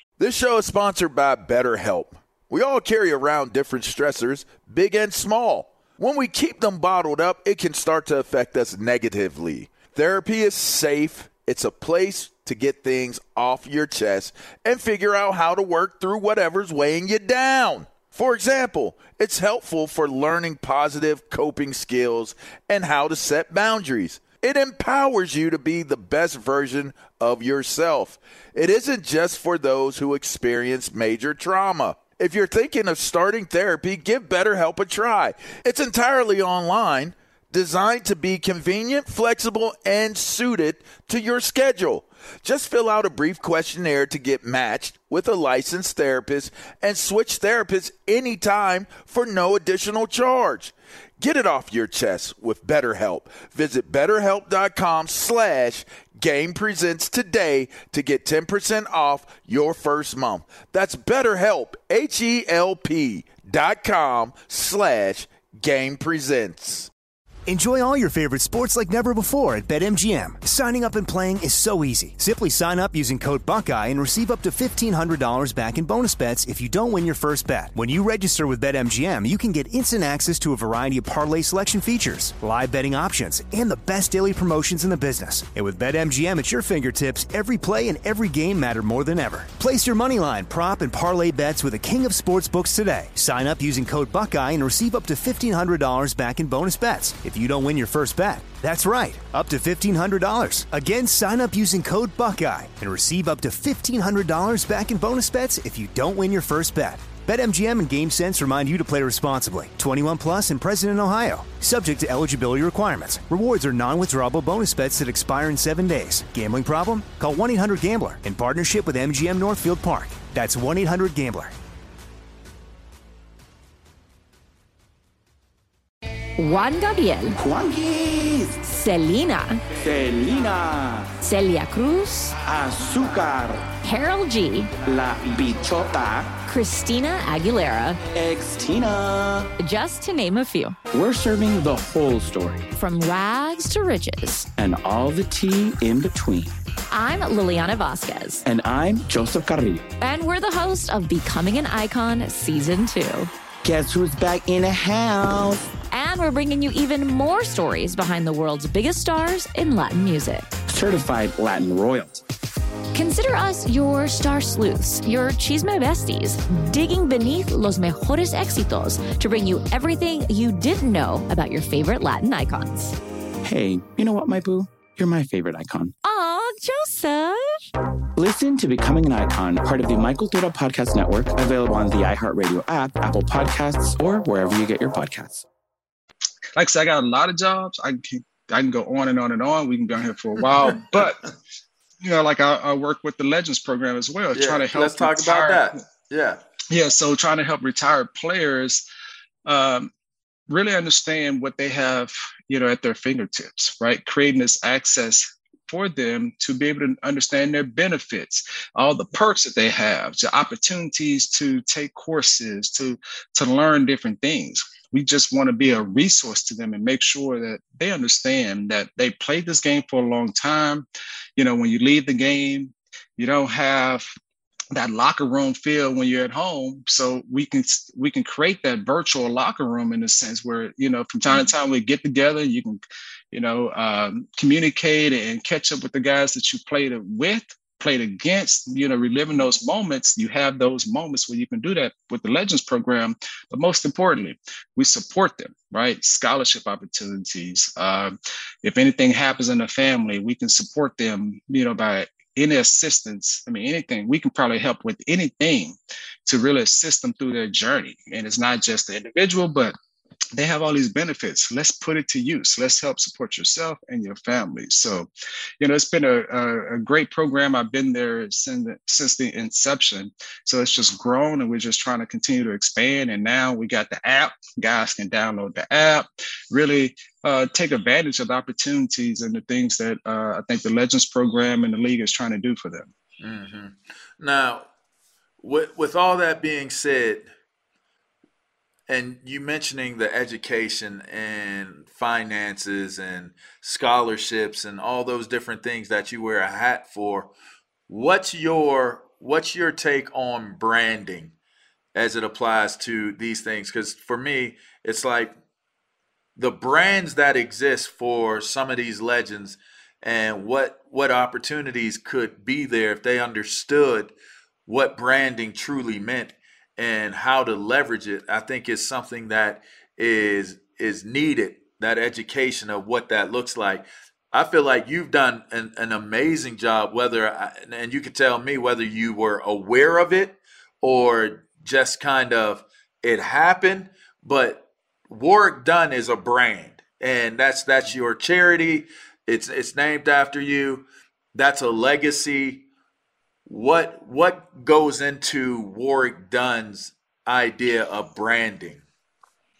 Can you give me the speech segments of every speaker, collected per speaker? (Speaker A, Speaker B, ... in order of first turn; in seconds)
Speaker A: 0.2-66.9, 194.3-196.4, 283.2-284.6, 285.4-287.3, 288.9-297.3, 297.9-301.3, 301.9-305.3, 306.4-314.1, 314.7-342.6, 343.5-348.8
Speaker B: 67.5-121.5
Speaker C: 126.4-127.4, 128.7-129.6, 131.2-132.4, 133.8-134.7, 136.5-138.0, 139.6-140.8, 142.7-144.5, 146.9-148.4, 150.0-153.3, 155.9-160.5, 162.9-173.0, 176.0-177.7
Speaker D: 127.4-128.7, 129.8-131.1, 132.4-133.8, 134.8-136.4, 138.1-139.5, 140.9-142.7, 144.6-146.5, 148.4-149.9, 153.6-155.7, 160.7-162.2, 173.4-175.9, 178.2-185.5
Speaker E: 186.6-191.3, 192.0-195.7, 196.7-198.8, 199.5-199.9, 200.5-224.1, 224.7-259.8, 260.4-282.9